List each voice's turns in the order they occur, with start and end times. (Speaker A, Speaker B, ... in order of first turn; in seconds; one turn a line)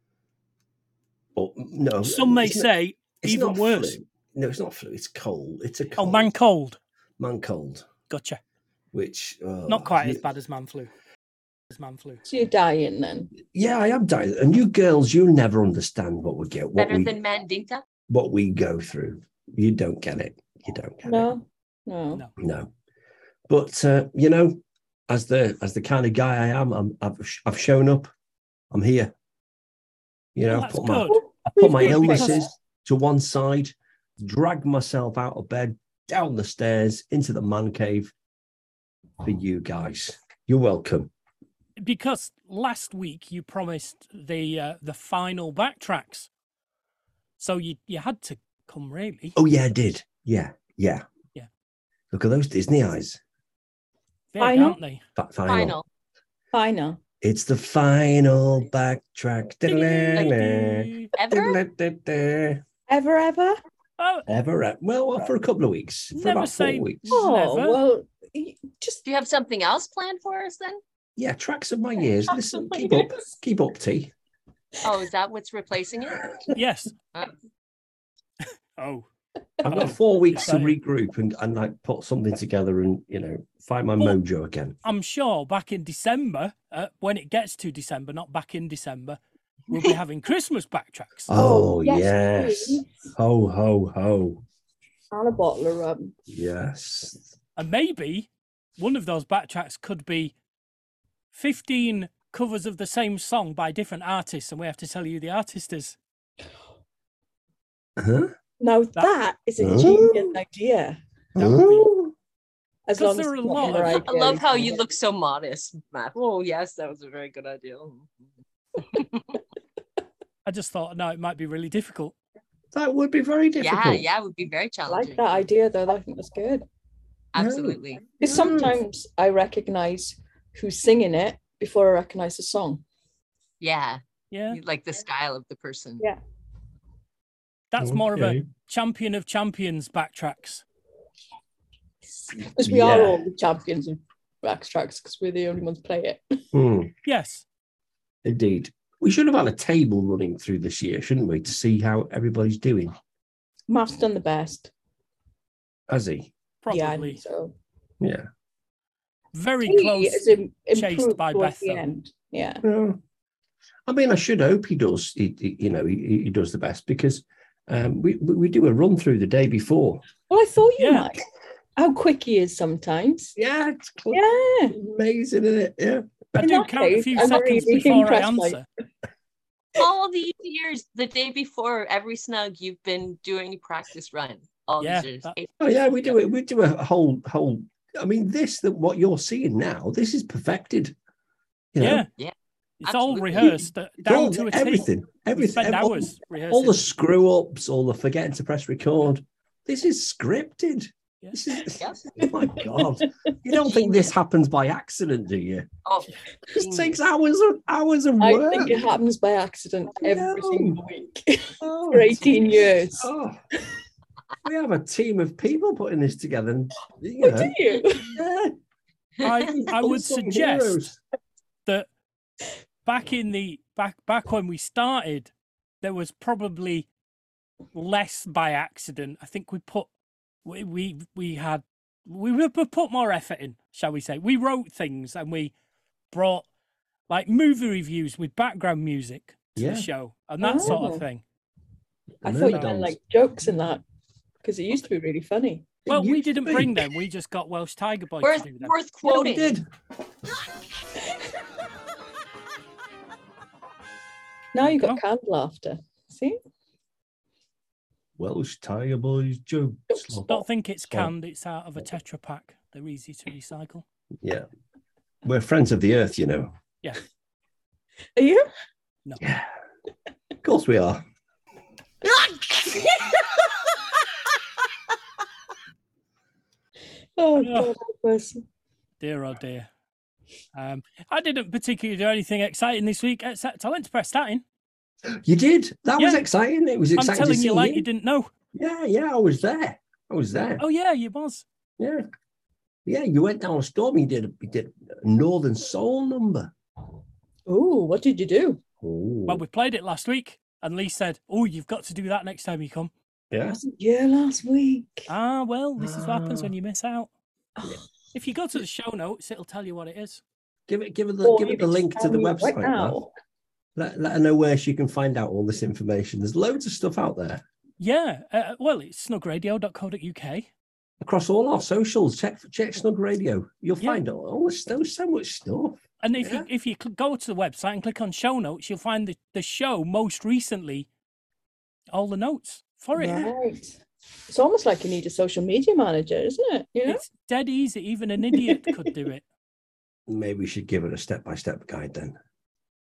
Speaker A: 1.4-2.7
Speaker B: 2.0-4.0
Speaker A: 3.2-6.3
Speaker B: 6.0-6.8
Speaker A: 7.2-7.8
Speaker B: 8.1-8.4
Speaker A: 8.9-10.2
Speaker B: 9.7-10.9
Speaker B: 11.7-12.2
Speaker C: 12.2-13.3
Speaker A: 13.5-17.2
Speaker D: 16.8-17.8
Speaker A: 18.1-21.3
Speaker C: 21.0-22.2
Speaker A: 22.4-22.7
Speaker A: 23.5-28.1
Speaker A: 28.7-29.1
Speaker A: 30.3-38.1
Speaker B: 30.5-31.2
Speaker C: 31.4-32.4
Speaker B: 31.8-32.5
Speaker A: 39.2-41.1
Speaker B: 41.8-46.3
Speaker B: 47.4-49.4
Speaker A: 49.4-51.0
Speaker A: 52.1-53.2
Speaker B: 54.3-55.0
Speaker C: 54.4-54.8
Speaker A: 55.2-55.8
Speaker D: 55.5-55.9
Speaker C: 56.5-57.0
Speaker A: 57.2-62.6
Speaker D: 59.9-60.4
Speaker B: 60.0-61.1
Speaker D: 61.2-61.6
Speaker C: 62.9-63.5
Speaker B: 64.0-64.2
Speaker A: 64.3-67.2
Speaker B: 66.1-67.8
Speaker C: 67.1-69.0
Speaker D: 69.0-70.8
Speaker A: 71.2-74.1
Speaker C: 72.7-73.2
Speaker D: 74.8-76.5
Speaker B: 76.5-76.9
Speaker B: 78.8-79.0
Speaker A: 79.6-84.8
Speaker B: 79.7-80.8
Speaker B: 84.8-91.3
Speaker A: 91.3-94.4
Speaker C: 91.3-93.0
Speaker C: 95.1-96.1
Speaker A: 96.3-97.3
Speaker B: 97.5-100.3
Speaker B: 101.3-106.0
Speaker A: 108.0-108.3
Speaker C: 108.6-111.0
Speaker A: 109.6-110.4
Speaker B: 111.4-111.9
Speaker A: 111.4-112.1
Speaker C: 112.9-114.8
Speaker B: 113.0-114.0
Speaker D: 113.8-118.1
Speaker D: 118.8-119.4
Speaker B: 120.4-122.2
Speaker A: 122.7-124.1
Speaker D: 123.6-125.4
Speaker C: 124.9-126.6
Speaker D: 127.3-128.1
Speaker A: 127.3-128.8
Speaker C: 128.2-132.8
Speaker D: 133.6-136.1
Speaker B: 134.3-134.6
Speaker B: 137.7-140.6
Speaker A: 137.8-138.4
Speaker C: 142.3-146.2
Speaker A: 142.4-143.2
Speaker A: 146.5-146.9
Speaker B: 147.0-147.4
Speaker A: 148.2-152.9
Speaker C: 153.7-154.7
Speaker A: 155.9-156.3
Speaker B: 156.6-157.2
Speaker C: 156.7-157.5
Speaker A: 158.0-158.2
Speaker B: 159.3-161.9
Speaker C: 159.6-162.6
Speaker A: 162.6-163.0
Speaker A: 163.9-170.0
Speaker C: 170.3-171.2
Speaker B: 170.8-171.1
Speaker C: 171.8-173.3
Speaker A: 173.3-176.4
Speaker C: 174.1-174.8
Speaker C: 176.4-178.6
Speaker B: 176.4-178.7
Speaker D: 179.8-186.1
Speaker B: 184.8-185.3
Speaker A: 185.6-190.9
Speaker A: 191.7-192.0
Speaker B: 191.8-192.1
Speaker B: 192.8-196.8
Speaker D: 192.8-193.6
Speaker A: 193.4-205.7
Speaker D: 201.8-202.1
Speaker C: 202.2-202.9
Speaker D: 205.8-207.0
Speaker A: 206.5-208.9
Speaker C: 208.2-213.1
Speaker A: 209.9-210.8
Speaker A: 211.6-213.4
Speaker A: 214.4-218.5
Speaker C: 217.2-218.1
Speaker B: 219.2-220.8
Speaker A: 219.2-221.0
Speaker B: 222.8-225.3
Speaker B: 225.8-226.9
Speaker B: 227.7-229.9
Speaker B: 230.4-235.5
Speaker B: 236.1-236.4
Speaker B: 237.1-241.2
Speaker A: 239.6-239.9
Speaker C: 240.4-241.0
Speaker A: 242.2-243.0
Speaker C: 242.2-243.8
Speaker C: 244.4-245.7
Speaker A: 245.8-246.8
Speaker B: 245.9-248.7
Speaker D: 248.2-249.5
Speaker A: 249.0-249.6
Speaker C: 254.5-256.4
Speaker B: 254.6-255.0
Speaker A: 258.2-261.1
Speaker B: 260.3-263.8
Speaker A: 265.2-266.5
Speaker C: 268.1-268.4
Speaker A: 269.2-269.5
Speaker A: 270.4-271.0
Speaker C: 272.3-273.1
Speaker C: 277.1-278.4
Speaker B: 277.4-277.7
Speaker B: 279.0-279.7
Speaker B: 280.5-284.4
Speaker A: 285.2-287.9
Speaker B: 286.0-286.2
Speaker B: 286.9-288.3
Speaker A: 288.5-290.6
Speaker B: 290.6-291.4
Speaker A: 292.9-296.5
Speaker C: 297.5-298.6
Speaker A: 298.8-299.4
Speaker B: 299.3-302.9
Speaker A: 303.3-303.6
Speaker C: 303.5-305.1
Speaker B: 305.1-307.1
Speaker A: 305.8-306.5
Speaker C: 307.6-307.8
Speaker B: 308.1-310.2
Speaker A: 310.7-313.1
Speaker C: 311.2-313.1
Speaker A: 313.8-317.4
Speaker B: 317.8-320.5
Speaker A: 321.0-326.5
Speaker B: 326.0-330.9
Speaker B: 331.9-333.3
Speaker C: 332.9-337.0
Speaker B: 336.9-339.2
Speaker C: 338.3-338.6
Speaker A: 340.1-342.2